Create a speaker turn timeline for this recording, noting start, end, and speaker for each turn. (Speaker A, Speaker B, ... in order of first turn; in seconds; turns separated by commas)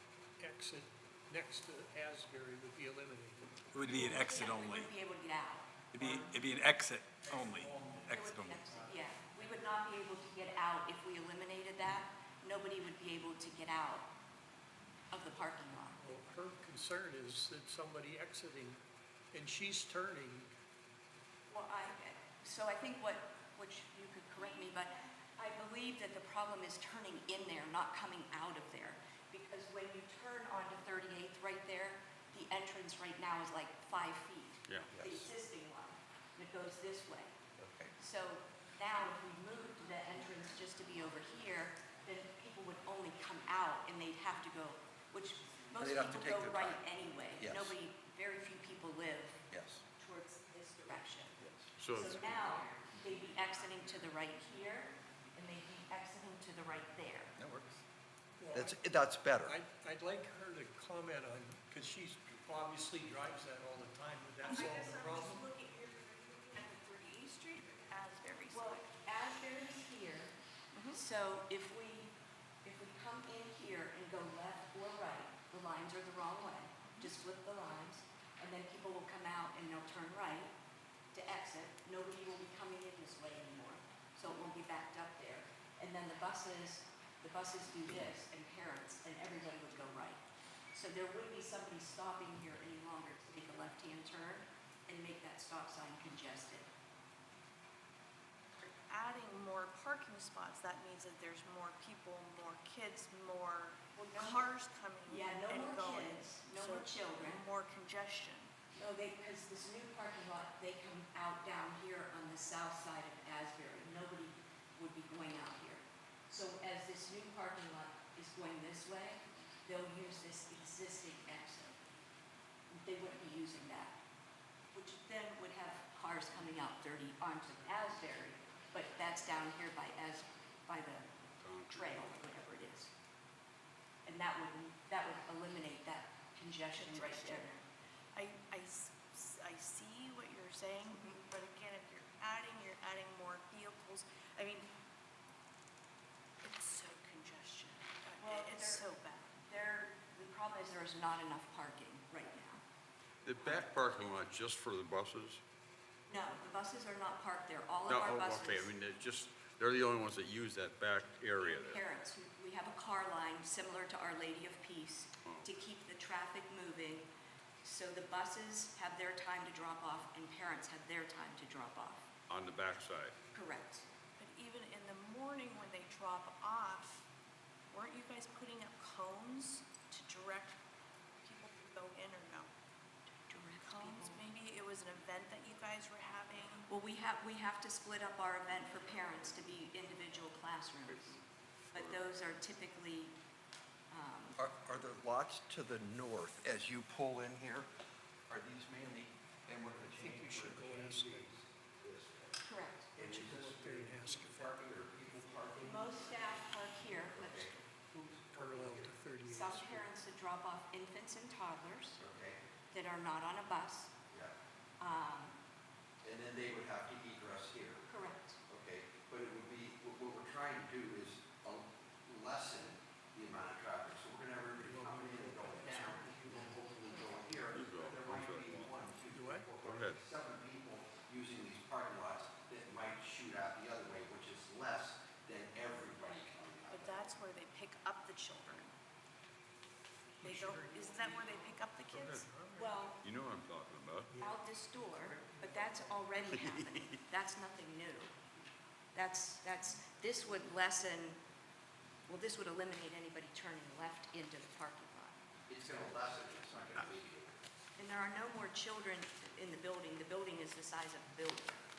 Speaker A: 0.4-3.5, Speaker B: 3.7-4.9, Speaker C: 3.9-5.8, Speaker B: 5.9-8.7, Speaker A: 6.0-6.5, Speaker A: 7.2-9.0, Speaker C: 8.1-14.1, Speaker C: 15.1-16.0, Speaker A: 16.0-20.5, Speaker C: 21.5-37.4, Speaker D: 24.4-25.1, Speaker E: 34.7-35.0, Speaker F: 34.9-35.3, Speaker F: 37.6-37.9, Speaker C: 38.0-49.4, Speaker F: 45.8-47.8, Speaker F: 49.5-49.8, Speaker C: 50.0-51.4, Speaker F: 51.4-51.7, Speaker E: 51.8-52.5, Speaker C: 51.9-57.3, Speaker F: 57.4-57.8, Speaker A: 58.4-58.8, Speaker F: 58.5-59.6, Speaker A: 59.4-65.5, Speaker D: 64.5-68.9, Speaker C: 68.5-70.4, Speaker D: 70.7-71.0, Speaker C: 70.9-72.1, Speaker C: 72.7-80.5, Speaker D: 76.9-77.1, Speaker C: 81.1-90.2, Speaker C: 90.7-96.7, Speaker D: 98.6-108.5, Speaker C: 104.0-104.5, Speaker C: 105.1-107.4, Speaker C: 108.8-121.8, Speaker C: 122.7-124.0, Speaker C: 124.7-132.9, Speaker E: 131.4-132.3, Speaker C: 134.1-137.5, Speaker D: 136.7-144.7, Speaker C: 140.9-141.2, Speaker D: 146.4-149.4, Speaker C: 148.2-148.9, Speaker C: 149.4-152.6, Speaker E: 153.2-155.4, Speaker C: 156.1-158.7, Speaker E: 157.9-161.8, Speaker C: 161.4-167.1, Speaker E: 165.2-165.5, Speaker C: 167.6-172.1, Speaker E: 172.3-173.2, Speaker C: 173.3-173.8, Speaker D: 174.2-177.1, Speaker D: 177.7-180.6, Speaker D: 181.2-182.5, Speaker C: 183.3-184.2, Speaker D: 183.6-186.7, Speaker C: 186.7-191.2, Speaker C: 191.7-193.2, Speaker C: 193.9-194.4, Speaker F: 194.3-197.7, Speaker F: 198.3-202.4, Speaker A: 199.9-201.3, Speaker C: 202.4-202.9, Speaker F: 202.9-209.0, Speaker A: 203.0-205.0, Speaker C: 205.6-207.6, Speaker A: 208.3-209.9, Speaker C: 209.2-212.0, Speaker F: 212.0-212.4, Speaker C: 212.7-213.9, Speaker C: 214.8-215.4, Speaker F: 216.0-217.9, Speaker C: 217.9-218.4, Speaker F: 218.5-237.1, Speaker A: 224.6-226.6, Speaker C: 225.2-227.3, Speaker E: 227.5-228.8, Speaker A: 229.1-229.5, Speaker E: 229.6-230.0, Speaker D: 236.7-238.7, Speaker A: 240.2-242.9, Speaker D: 240.2-242.3, Speaker E: 241.9-242.3, Speaker C: 242.6-243.0, Speaker E: 243.0-244.1, Speaker A: 244.1-246.1, Speaker C: 244.2-248.1, Speaker E: 246.3-246.9, Speaker C: 248.9-251.2, Speaker C: 252.1-255.2, Speaker F: 255.5-257.4, Speaker C: 257.8-261.7